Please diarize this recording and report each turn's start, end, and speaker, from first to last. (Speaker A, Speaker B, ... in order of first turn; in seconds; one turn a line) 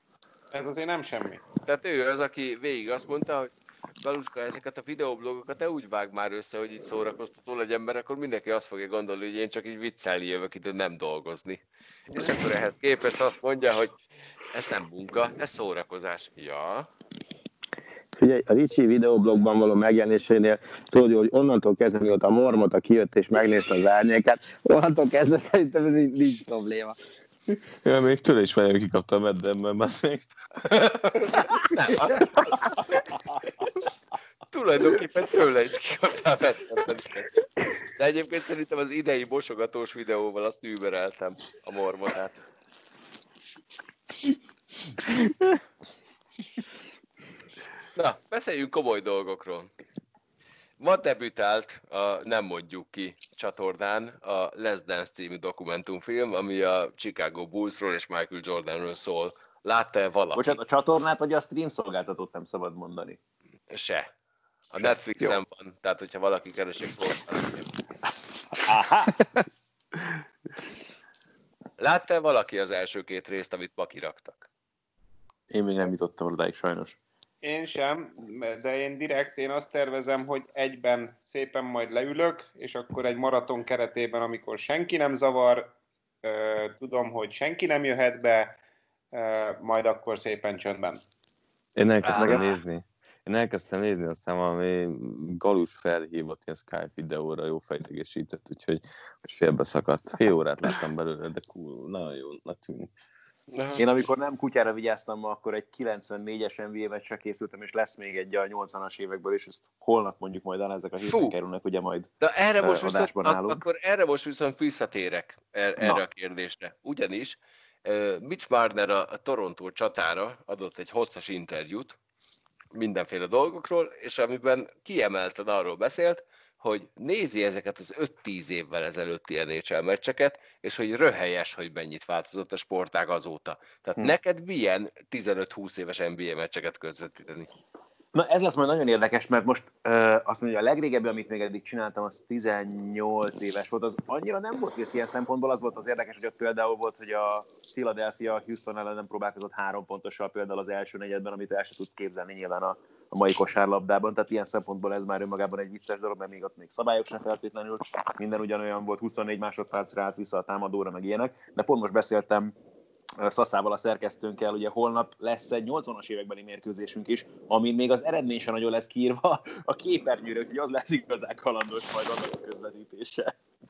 Speaker A: 0.5-1.4
Speaker B: 1.6-14.0
Speaker B: 14.5-16.9
Speaker C: 18.1-27.0
Speaker D: 27.8-30.3
Speaker B: 30.7-32.6
Speaker B: 34.5-37.3
Speaker B: 38.0-42.4
Speaker B: 48.0-49.7
Speaker B: 50.8-60.5
Speaker E: 60.3-63.2
Speaker B: 63.7-64.1
Speaker B: 64.7-67.7
Speaker E: 64.8-65.4
Speaker E: 68.5-69.4
Speaker B: 71.8-74.5
Speaker E: 75.5-77.0
Speaker A: 77.4-85.7
Speaker A: 86.2-88.5
Speaker A: 89.1-91.0
Speaker D: 91.8-102.9
Speaker B: 92.0-92.5
Speaker B: 103.5-103.8
Speaker E: 103.8-112.1
Speaker B: 111.0-111.3
Speaker B: 112.2-122.0
Speaker E: 112.6-113.6
Speaker B: 122.7-137.5
Speaker E: 138.1-162.5
Speaker E: 163.2-173.3